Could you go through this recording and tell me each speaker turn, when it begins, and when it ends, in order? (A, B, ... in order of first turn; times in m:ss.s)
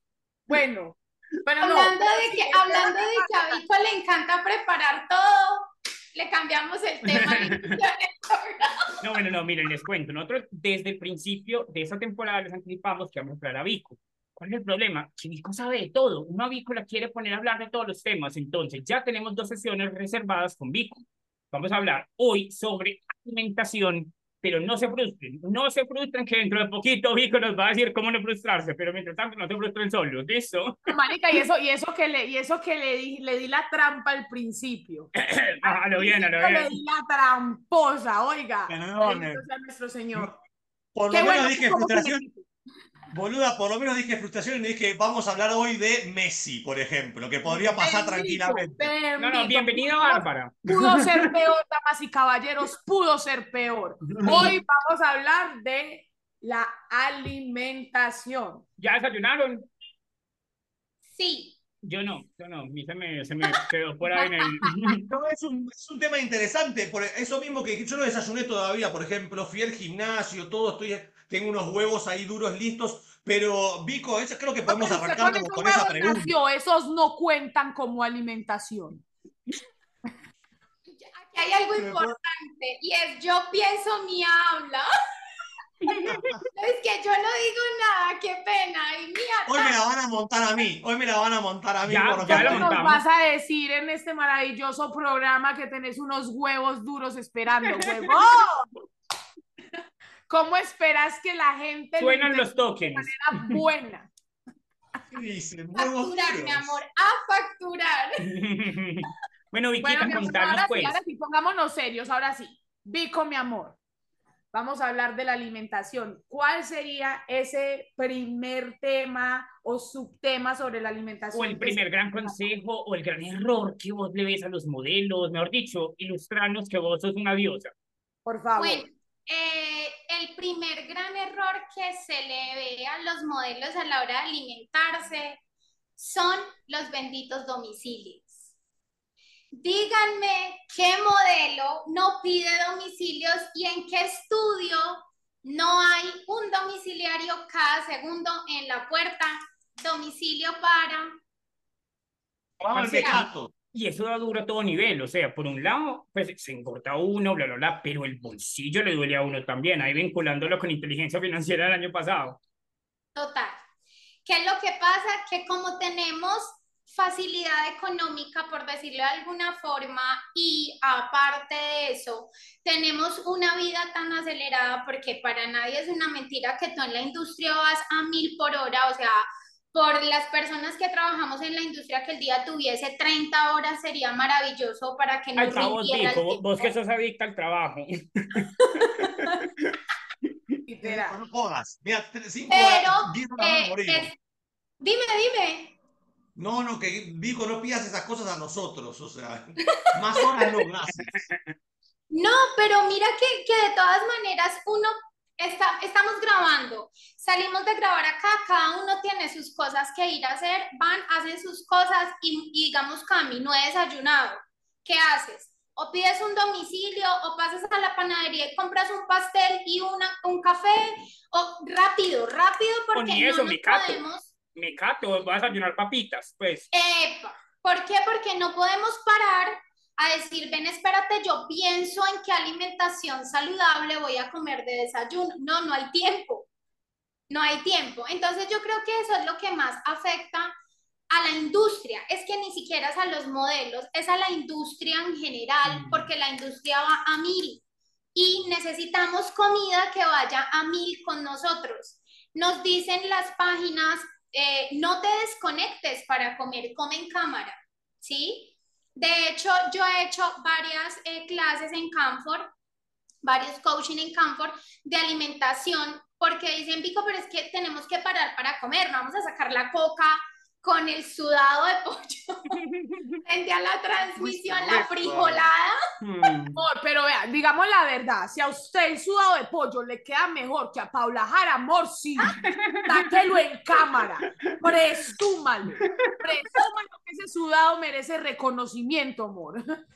0:00.5-0:03.6 A
0:01.6-0:08.8 B
0:07.1-0:07.8 C
0:09.0-0:30.8 C
0:30.9-0:35.1 A
0:35.2-0:36.8 C
0:35.6-0:40.3 A
0:38.7-0:39.4 D
0:40.1-0:40.4 D
0:40.9-0:42.2 D
0:41.1-0:42.5 A
0:43.1-0:48.9 D
0:47.5-0:58.6 A
0:49.2-0:51.4 C
0:54.1-0:54.6 C
0:54.3-0:54.6 B
0:58.8-0:59.7 C
1:01.1-1:01.6 B
1:01.8-1:05.0 C
1:04.1-1:04.6 A
1:05.1-1:16.3 D
1:14.7-1:19.0 A
1:20.9-1:24.9 B
1:21.8-1:22.2 D
1:25.8-1:26.4 C
1:26.5-1:29.7 B
1:29.5-1:32.9 D
1:31.9-1:33.0 C
1:32.2-1:38.7 A
1:37.8-1:38.1 C
1:40.3-1:44.1 A
1:42.0-1:43.6 C
1:45.1-1:46.8 D
1:45.8-1:48.2 B
1:48.2-1:51.0 C
1:49.8-1:53.8 A
1:54.5-2:02.4 A
2:01.3-2:07.7 C
2:08.3-2:08.9 A
2:08.6-2:15.4 B
2:16.0-2:18.5 B
2:19.5-2:31.2 B
2:32.6-2:33.5 D
2:32.7-2:42.4 C
2:33.0-2:33.2 B
2:43.2-2:43.6 B
2:44.2-3:06.5 B
3:05.4-3:09.7 C
3:10.7-3:11.2 A
3:10.8-3:14.1 D
3:12.5-3:14.2 B
3:14.8-3:15.7 B
3:16.4-3:21.1 D
3:22.1-3:44.3 B
3:42.9-3:44.0 C
3:44.5-3:46.7 C
3:46.7-3:56.5 B
3:57.3-4:00.5 B
4:01.1-4:07.6 B
4:05.7-4:06.1 C
4:08.2-4:22.5 B
4:23.2-4:32.6 B
4:32.5-4:33.2 C
4:33.2-4:35.8 B
4:34.2-4:35.5 D
4:36.0-4:36.6 C
4:36.6-4:49.6 A
4:42.3-4:43.3 C
4:43.8-4:44.1 C
4:44.6-4:44.9 C
4:45.8-4:46.6 C